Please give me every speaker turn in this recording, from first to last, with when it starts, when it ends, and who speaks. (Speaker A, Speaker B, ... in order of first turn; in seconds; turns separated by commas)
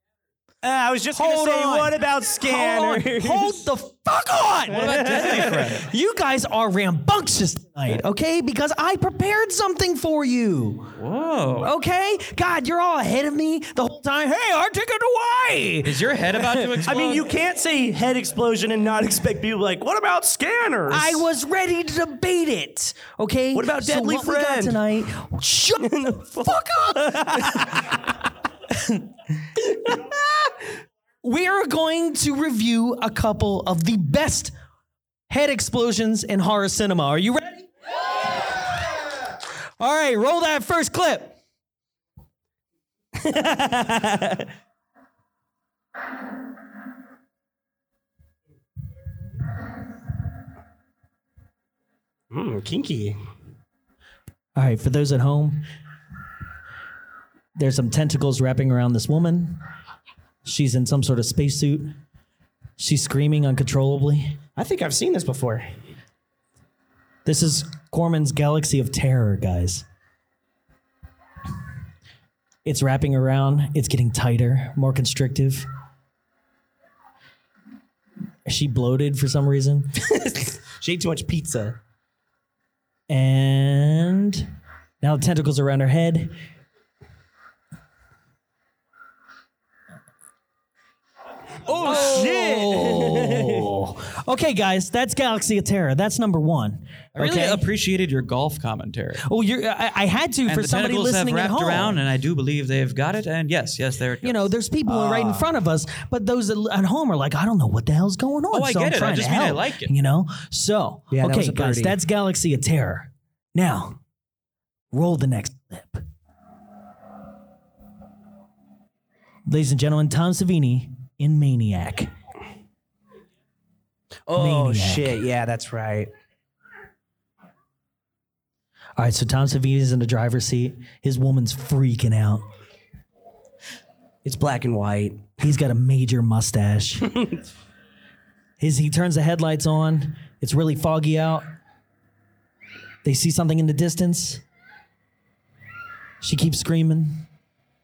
Speaker A: 0.6-3.7, Speaker B: 1.1-10.9, Speaker C: 4.7-5.9, Speaker A: 4.7-5.6, Speaker C: 11.0-11.7, Speaker B: 11.6-16.7, Speaker C: 15.8-17.3, Speaker A: 16.8-21.2, Speaker B: 20.9-27.7, Speaker A: 23.5-24.8, Speaker A: 25.8-28.0, Speaker B: 28.7-29.1, Speaker A: 29.7-30.5, Speaker B: 31.2-34.5, Speaker B: 35.3-37.7, Speaker B: 39.8-41.4, Speaker A: 43.2-44.5, Speaker A: 52.3-53.2, Speaker B: 54.6-55.6, Speaker B: 57.6-59.6, Speaker B: 60.5-61.9, Speaker B: 62.8-64.4, Speaker A: 64.6-65.7, Speaker B: 67.3-69.8, Speaker B: 72.7-75.7, Speaker B: 78.5-80.0, Speaker A: 80.0-81.8, Speaker B: 83.1-84.5, Speaker B: 85.0-86.4, Speaker A: 91.7-93.7, Speaker B: 91.8-97.7, Speaker C: 91.8-92.2, Speaker C: 97.2-99.2, Speaker B: 99.2-102.0, Speaker C: 100.5-104.5, Speaker B: 104.2-114.0, Speaker A: 104.9-105.5, Speaker C: 108.5-109.9, Speaker A: 111.1-112.0, Speaker B: 114.9-116.0, Speaker B: 119.5-122.1, Speaker A: 124.3-126.1, Speaker B: 124.3-125.2, Speaker B: 129.0-132.4, Speaker A: 134.2-135.4, Speaker B: 135.4-137.2, Speaker B: 138.6-141.5, Speaker B: 143.0-144.4, Speaker B: 146.2-147.2